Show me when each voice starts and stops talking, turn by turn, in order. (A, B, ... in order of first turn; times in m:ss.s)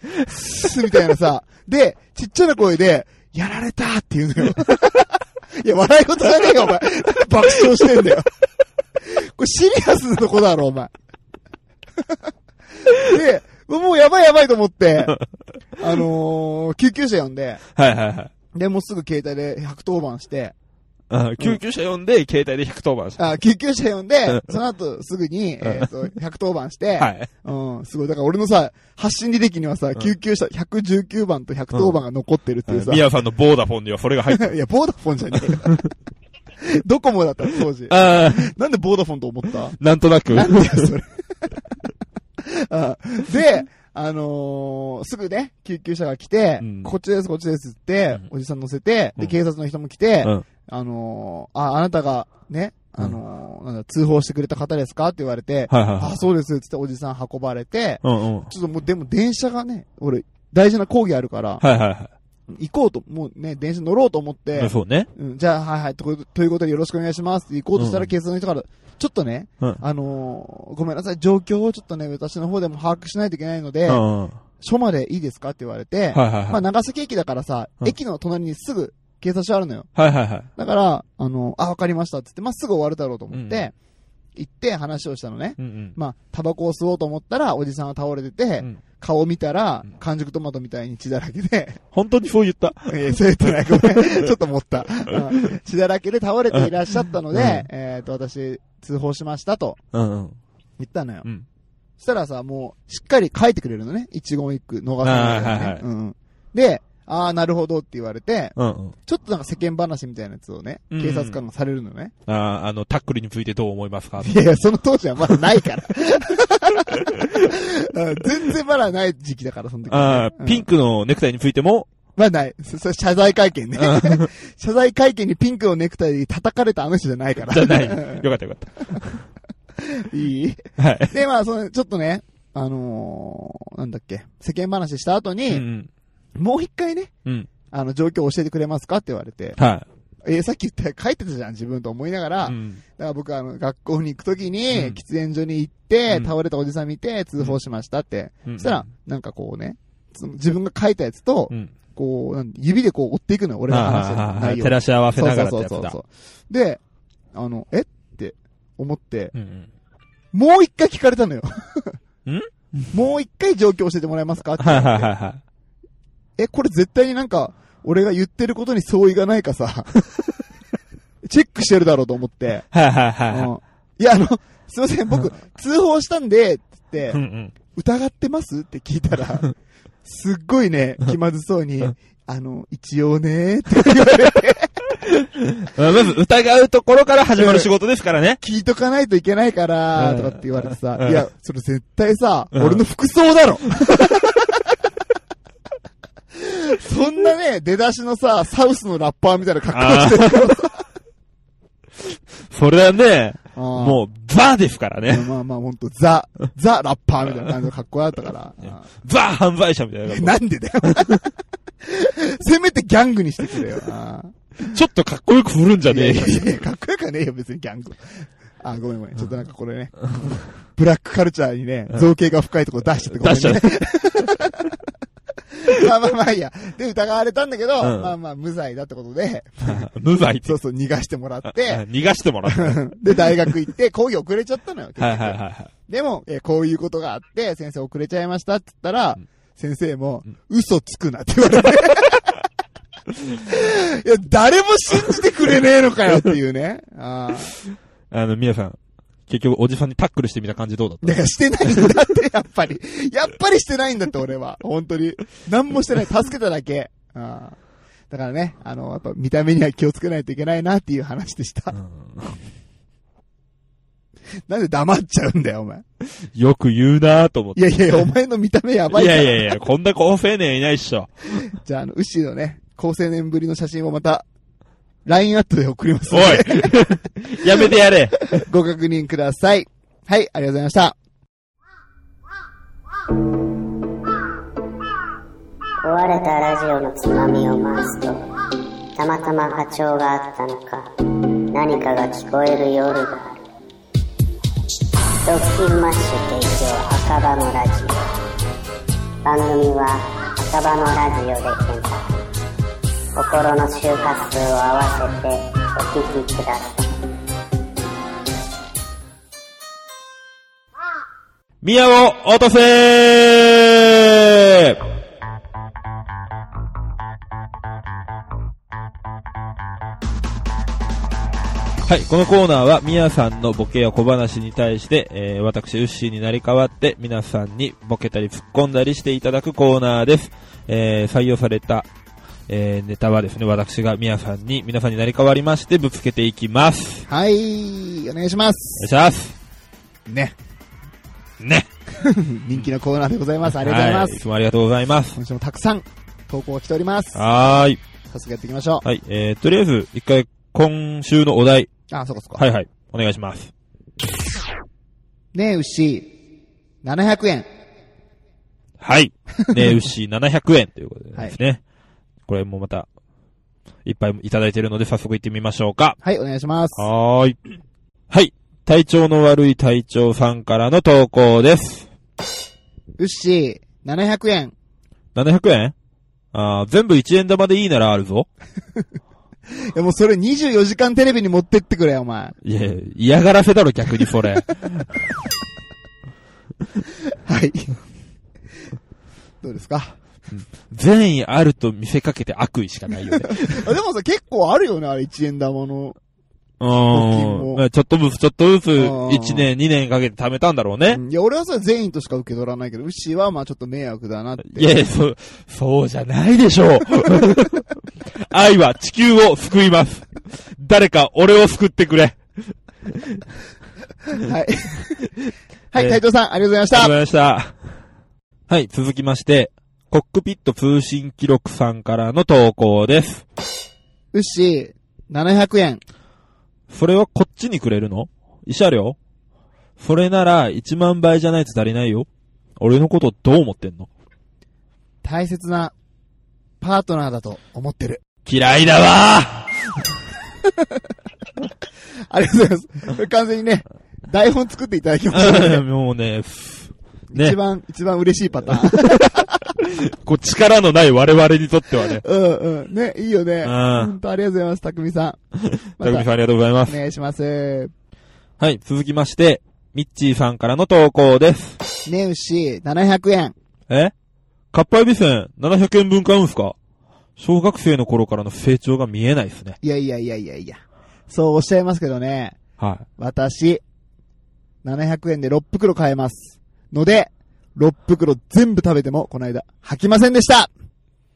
0:00.2-0:08.3 A
0:09.0-0:10.9 A
0:12.9-0:15.2 A
0:15.8-0:17.6 A
0:17.8-0:18.3 B
0:18.5-0:20.5 A
0:21.1-0:23.3 B
0:23.2-0:33.0 A
0:24.3-0:24.5 B
0:25.6-0:25.9 B
0:27.0-0:27.3 B
0:31.7-0:32.0 B
0:32.7-0:34.5 B
0:34.3-0:35.8 A
0:36.6-0:39.8 A
0:37.9-0:38.5 B
0:39.8-0:40.9 B
0:40.3-0:41.8 A
0:42.4-1:01.6 A
0:46.6-0:46.9 B
0:55.7-0:56.2 B
0:58.0-0:58.5 B
1:01.6-1:02.1 B
1:02.5-1:14.0 A
1:04.6-1:05.1 B
1:07.7-1:08.1 B
1:13.9-1:14.4 B
1:14.6-1:19.9 A
1:16.1-1:16.6 B
1:20.0-1:20.5 B
1:20.6-1:23.7 A
1:23.3-1:23.6 B
1:24.3-1:31.8 A
1:25.6-1:26.0 B
1:31.9-1:34.3 B
1:32.9-1:39.8 A
1:35.1-1:35.5 B
1:37.3-1:37.7 B
1:39.9-1:40.4 B
1:40.8-1:41.2 A
1:42.0-1:48.5 A
1:45.0-1:45.8 B
1:48.6-1:48.9 B
1:49.0-1:52.1 A
1:50.9-1:51.4 B
1:52.2-1:54.4 B
1:54.2-2:00.7 A
1:56.9-1:57.5 B
1:59.9-2:01.9 B
2:02.2-2:08.3 A
2:03.8-2:04.2 B
2:07.4-2:09.2 B
2:09.8-2:15.6 A
2:10.8-2:11.1 B
2:15.5-2:15.9 B
2:16.4-2:17.1 A
2:17.7-2:19.6 A
2:19.6-2:19.8 B
2:20.2-2:36.8 A
2:22.4-2:22.8 B
2:24.7-2:25.0 B
2:28.4-2:28.9 B
2:33.7-2:36.0 B
2:37.3-2:39.3 A
2:39.3-2:39.7 B
2:40.3-2:42.0 A
2:42.2-2:42.9 B
2:42.9-2:45.1 A
2:44.6-2:45.4 B
2:46.4-2:49.9 A
2:51.2-2:52.6 A
2:52.7-2:53.5 B
2:53.3-2:57.2 A
2:57.1-2:57.5 B
2:57.7-2:59.5 A
3:00.0-3:04.7 A
3:05.0-3:08.4 B
3:07.4-3:07.7 A
3:08.4-3:14.6 A
3:10.0-3:11.2 B
3:12.5-3:12.8 B
3:16.3-3:20.8 A
3:19.7-3:20.6 B
3:22.5-3:25.3 B
3:23.5-3:24.0 A
3:25.0-3:28.8 A
3:29.0-3:31.1 B
3:30.1-3:34.4 A
3:34.6-3:36.5 B
3:35.9-3:44.8 A
3:43.1-3:44.3 B
3:45.6-3:49.9 A
3:47.8-3:48.1 B
3:49.6-3:50.5 B
3:50.4-3:51.8 A
3:51.5-3:53.3 B
3:52.4-4:02.4 A
3:55.0-3:55.7 B
4:03.4-4:07.6 A
4:08.1-4:11.2 B
4:11.0-4:17.6 A
4:18.1-4:21.8 A
4:21.8-4:22.3 B
4:24.5-4:25.8 A
4:26.3-4:28.1 B
4:27.6-4:29.5 A
4:28.9-4:31.4 B
4:31.4-4:34.2 A
4:35.0-4:41.0 A
4:36.1-4:38.4 B
4:45.8-4:48.3 C
4:49.0-4:50.9 C
4:51.5-4:53.4 C
4:55.2-4:58.1 C
4:59.2-5:02.2 C
5:03.2-5:07.0 C
5:11.6-5:14.8 B
5:21.8-5:31.9 B
5:32.5-5:37.1 B
5:37.1-5:38.9 A
5:38.8-5:39.3 B
5:40.1-5:40.3 A
5:41.4-5:41.7 B
5:42.0-5:44.2 A
5:43.5-5:45.2 B
5:45.2-5:47.2 A
5:47.1-5:47.8 B
5:48.1-5:48.8 A
5:48.8-5:51.7 B
5:51.9-5:52.4 A
5:52.4-5:53.5 B
5:55.3-5:56.1 A
5:56.8-5:57.5 A
5:58.8-6:01.6 B
5:59.4-5:59.7 A
6:02.2-6:02.9 B
6:03.8-6:06.0 B
6:06.0-6:06.9 A
6:06.8-6:07.4 B
6:08.1-6:11.9 B
6:13.0-6:14.5 A
6:15.1-6:15.7 B
6:16.3-6:18.3 B
6:19.5-6:22.4 A
6:22.4-6:24.8 B
6:27.1-6:27.8 A
6:29.4-6:30.0 A
6:30.3-6:33.6 B
6:33.1-6:36.0 A
6:36.6-6:41.0 B
6:36.9-6:37.6 A
6:38.8-6:39.5 A
6:40.9-6:44.7 A
6:44.4-6:53.2 B
6:54.2-6:55.1 A
6:55.7-6:56.9 A
6:55.8-6:56.0 B
6:56.7-6:57.6 B
6:58.5-7:03.2 B
7:04.1-7:05.8 A
7:06.7-7:09.0 B
7:09.8-7:13.9 B
7:15.0-7:15.7 A
7:16.6-7:18.0 A
7:18.2-7:19.9 B
7:22.1-7:25.6 A
7:25.1-7:27.4 B
7:27.1-7:29.5 A
7:28.5-7:32.0 B
7:31.8-7:35.2 A
7:33.4-7:33.9 B
7:35.5-7:36.8 B
7:35.8-7:36.1 A
7:36.6-7:37.7 A
7:38.4-7:41.6 B
7:41.8-7:43.3 A
7:44.5-7:46.6 B
7:47.2-7:49.6 B
7:49.6-7:52.4 A
7:52.6-7:52.8 B
7:53.0-7:53.6 A
7:54.6-8:00.5 A